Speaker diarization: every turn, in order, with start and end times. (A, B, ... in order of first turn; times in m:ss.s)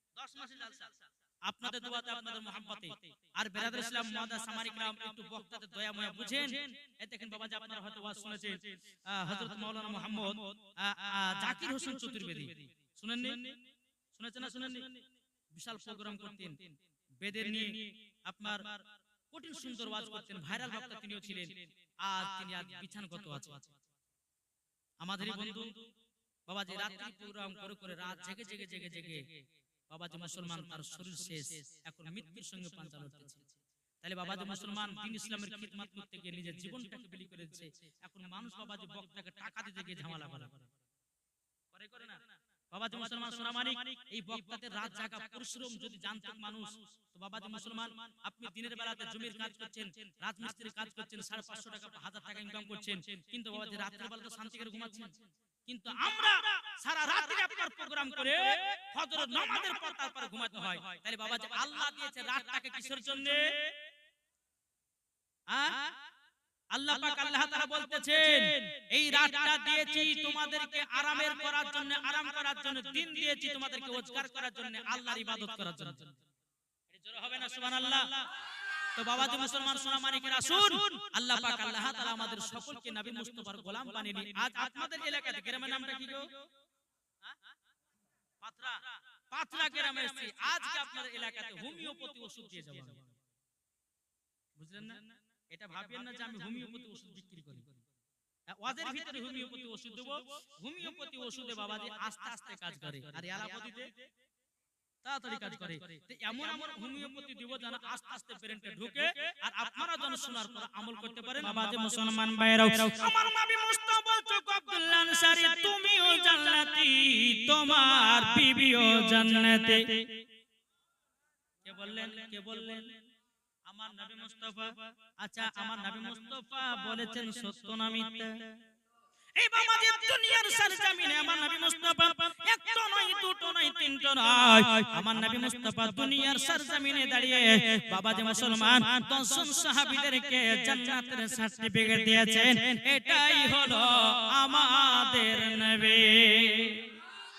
0:00.2-0:13.6 A
0:14.1-0:23.7 A
0:25.0-0:25.9 A
0:26.5-0:40.7 A
0:41.7-1:03.7 A
1:05.5-1:06.0 A
1:06.7-1:16.2 A
1:16.9-1:26.4 A
1:28.4-1:33.2 A
1:34.6-1:37.8 A
1:38.5-1:44.0 A
1:45.0-2:00.2 A
2:01.6-2:03.0 A
2:03.7-2:08.6 A
2:09.4-2:27.0 A